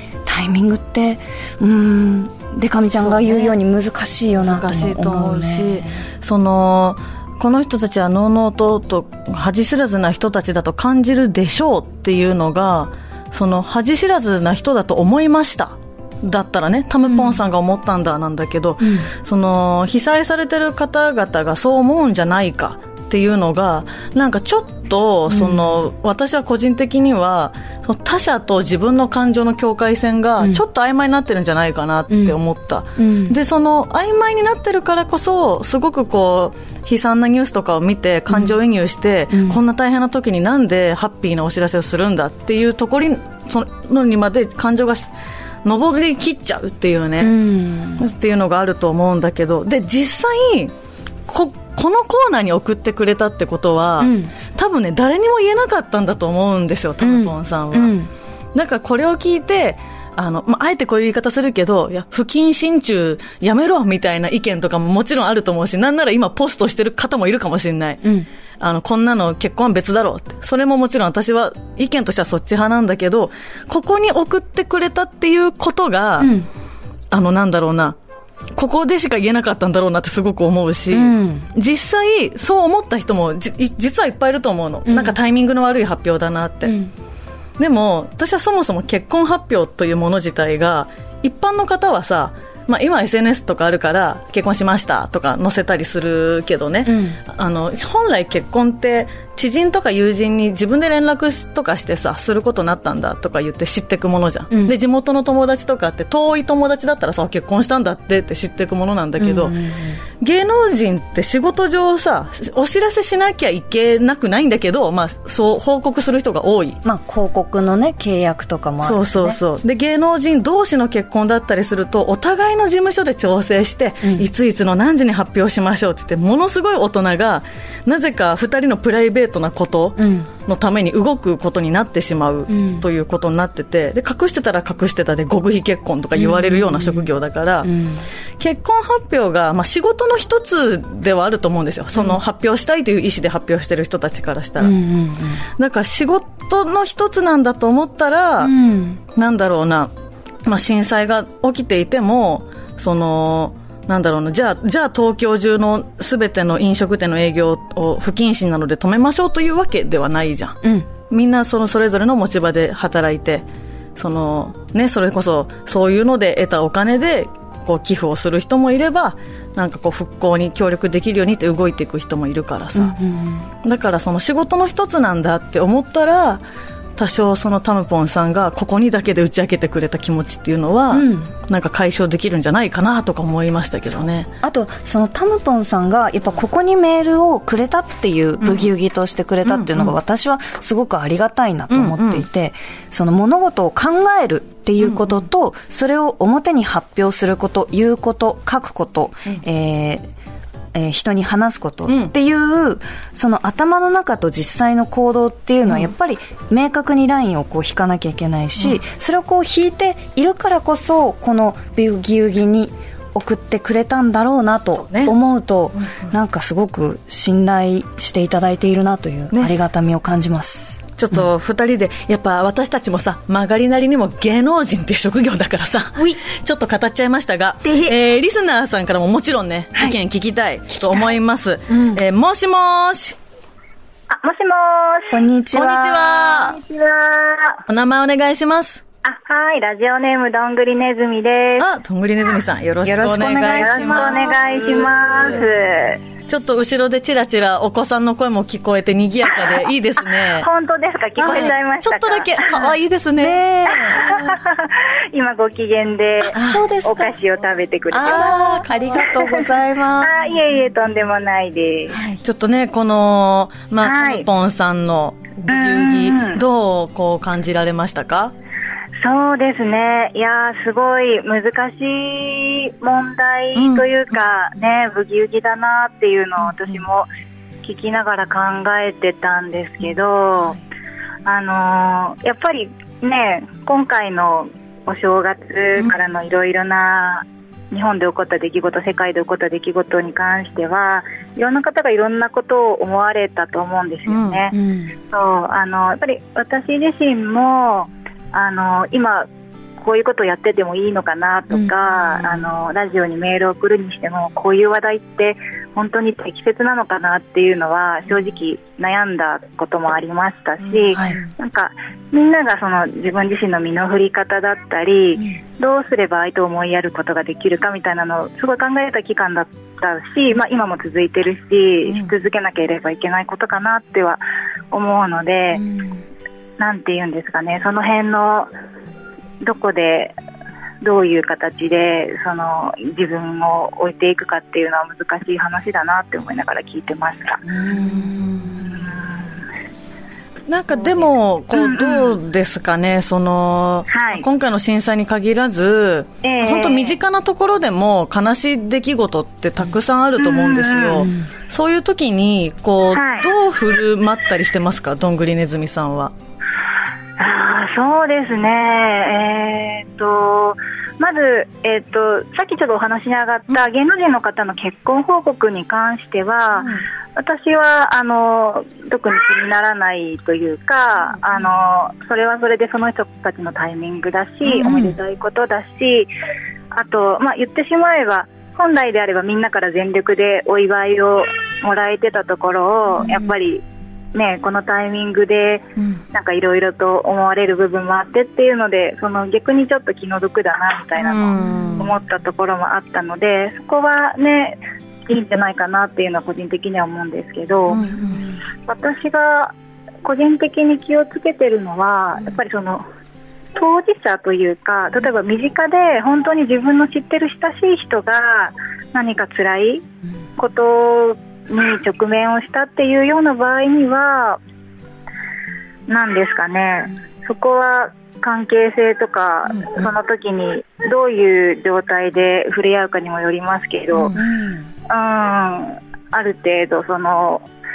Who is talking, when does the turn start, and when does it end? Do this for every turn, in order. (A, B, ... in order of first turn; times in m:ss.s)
0:00.2-0:06.0 A
0:03.0-0:03.6 B
0:04.4-0:45.1 B
0:17.1-0:17.4 A
0:18.8-0:19.1 A
0:25.3-0:25.8 A
0:32.1-0:32.4 A
0:33.0-0:33.4 A
0:38.3-0:38.6 A
0:39.3-0:39.6 A
0:45.6-0:47.4 B
0:47.2-0:48.1 A
0:48.0-0:50.7 B
0:51.3-0:58.0 B
0:54.0-0:54.3 A
0:57.0-0:58.1 A
0:58.6-1:08.0 B
1:08.6-1:16.3 B
1:16.2-1:16.5 A
1:17.1-1:18.0 B
1:18.6-1:26.8 B
1:20.9-1:21.5 A
1:24.9-1:25.2 A
1:26.7-1:26.9 A
1:27.6-1:49.6 B
1:36.9-1:37.2 A
1:44.5-1:44.8 A
1:49.2-1:50.0 A
1:50.2-1:56.8 B
1:56.8-1:59.4 A
1:58.8-2:17.7 B
2:04.0-2:04.3 A
2:10.0-2:10.3 A
2:12.5-2:12.9 A
2:16.2-2:17.1 A
2:17.6-2:18.0 A
2:18.4-2:24.8 B
2:24.6-2:25.4 A
2:25.6-2:28.5 B
2:28.4-2:29.0 A
2:29.2-2:29.9 B
2:30.5-2:40.6 B
2:41.1-2:43.4 B
2:44.0-2:53.0 B
2:52.8-2:53.5 A
2:53.6-2:56.4 B
2:57.0-3:04.3 B
3:00.9-3:01.3 A
3:04.4-3:20.1 A
3:08.4-3:08.7 B
3:09.5-3:10.0 B
3:11.7-3:12.2 B
3:14.8-3:15.2 B
3:20.7-3:40.8 A
3:21.9-3:22.1 B
3:34.8-3:35.1 B
3:41.0-3:53.2 B
3:47.6-3:48.0 A
3:51.7-3:52.0 A
3:54.1-3:55.2 C
3:55.1-3:56.1 A
3:55.5-3:56.6 B
3:56.2-3:57.6 C
3:57.7-3:58.8 B
3:59.0-4:01.7 C
4:01.6-4:05.4 B
4:02.8-4:04.5 A
4:03.5-4:06.0 C
4:06.3-4:10.5 B
4:09.3-4:09.6 C
4:10.2-4:12.7 C
4:11.2-4:13.4 B
4:13.2-4:14.4 A
4:13.7-4:19.5 C
4:16.3-4:17.2 A
4:16.4-4:16.7 B
4:17.9-4:20.1 A
4:17.9-4:20.1 B
4:20.0-4:22.0 C
4:21.9-4:22.2 A
4:22.2-4:28.3 B
4:23.8-4:24.3 C
4:25.5-4:26.4 C
4:29.0-4:37.1 C
4:33.6-4:33.9 B
4:37.6-4:40.6 C
4:41.2-4:54.6 C
4:54.1-4:54.4 B
4:54.5-4:55.0 A
4:55.1-4:59.3 C
4:59.8-5:25.6 C
5:02.1-5:02.4 B
5:10.9-5:11.2 A
5:25.6-5:25.9 A
5:26.6-5:28.5 C
5:29.4-5:30.1 C
5:30.8-5:37.8 C
5:37.5-5:38.8 A
5:38.7-5:39.0 C
5:40.5-5:56.1 B
5:41.5-5:42.2 C
5:43.9-5:44.2 C
5:46.2-5:47.0 C
5:50.2-5:51.1 C
5:52.9-5:53.3 C
5:57.2-6:16.1 C
6:14.6-6:14.9 B
6:14.6-6:14.9 A
6:16.7-6:23.6 C
6:24.1-6:37.8 C
6:31.0-6:31.9 B
6:37.7-6:38.2 B
6:38.7-6:39.5 C
6:40.0-6:42.8 C
6:43.6-6:49.9 C
6:50.4-6:54.4 C
6:55.9-7:04.2 C
7:04.2-7:04.7 A
7:04.9-7:07.5 C